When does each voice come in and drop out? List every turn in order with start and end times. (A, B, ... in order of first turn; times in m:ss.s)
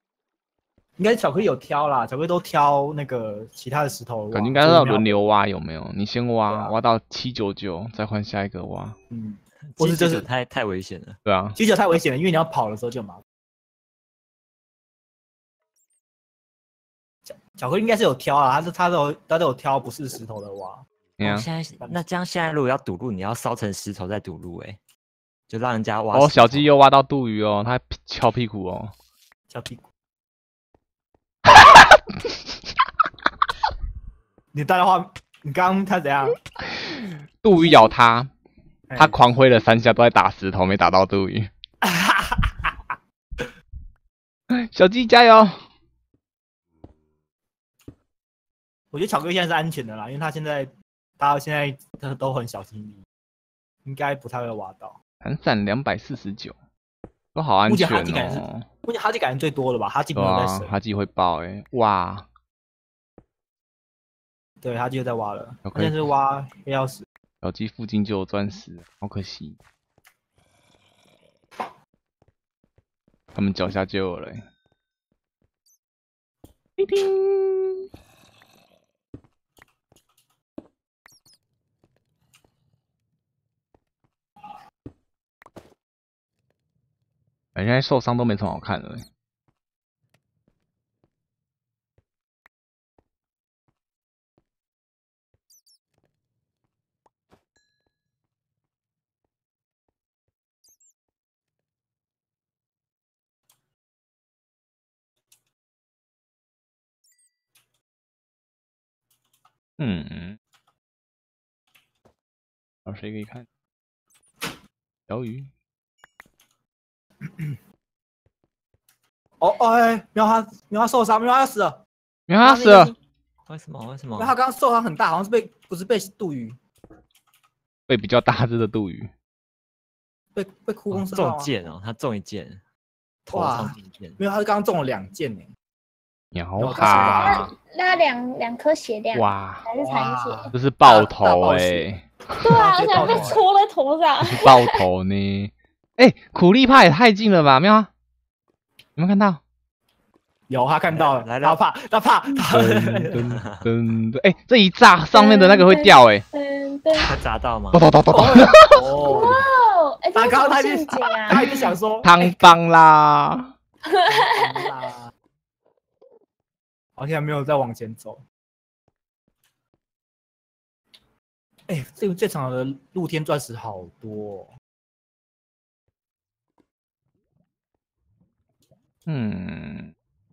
0:01.0-0:05.2 A
0:04.3-0:09.0 B
0:06.5-0:06.8 A
0:09.1-0:10.3 A
0:09.7-0:11.2 C
0:11.2-0:11.6 B
0:11.6-0:13.2 A
0:17.3-0:20.8 A
0:21.2-0:21.5 B
0:21.2-0:24.8 C
0:25.5-0:26.7 C
0:26.1-0:28.9 B
0:29.5-0:29.8 A
0:31.5-0:32.0 B
0:34.5-0:36.4 A
0:36.7-0:38.3 B
0:38.9-0:39.2 A
0:39.0-0:41.5 B
0:41.8-0:43.4 A
0:44.5-0:45.6 B
0:48.9-0:53.0 A
0:53.8-0:55.0 A
0:55.2-0:56.6 B
0:57.4-0:58.6 B
0:57.7-1:00.8 A
1:00.1-1:02.3 B
1:04.6-1:07.0 A
1:05.6-1:06.1 B
1:07.4-1:09.6 B
1:13.3-1:14.4 B
1:16.8-1:17.8 B
1:27.6-1:29.1 B
1:49.8-1:50.4 B
1:52.9-1:53.4 B
1:55.1-1:55.5 B
1:57.2-1:57.6 A
1:59.4-2:01.8 A
2:02.3-2:02.9 B
2:02.4-2:03.0 A
2:03.5-2:04.3 C
2:04.2-2:06.6 A
2:07.9-2:09.1 B
2:10.4-2:11.5 A
2:10.9-2:12.6 C
2:13.3-2:15.5 A
2:13.3-2:14.2 C
2:16.3-2:17.5 B
2:16.6-2:17.5 A
2:16.8-2:20.5 D
2:19.1-2:19.7 B
2:19.8-2:21.9 A
2:20.5-2:22.1 B
2:22.4-2:24.6 D
2:22.5-2:23.4 A
2:24.3-2:27.9 B
2:29.0-2:29.4 B
2:30.5-2:33.2 A
2:30.9-2:31.6 C
2:32.4-2:36.2 B
2:35.1-2:37.1 D
2:37.0-2:37.9 C
2:37.7-2:39.3 B
2:38.1-2:39.4 A
2:39.0-2:41.6 D
2:40.2-2:42.2 A
2:42.0-2:43.5 B
2:43.8-2:44.6 D
2:44.1-2:45.1 A
2:47.0-2:48.2 A
2:51.7-2:54.5 A
2:59.1-2:59.9 B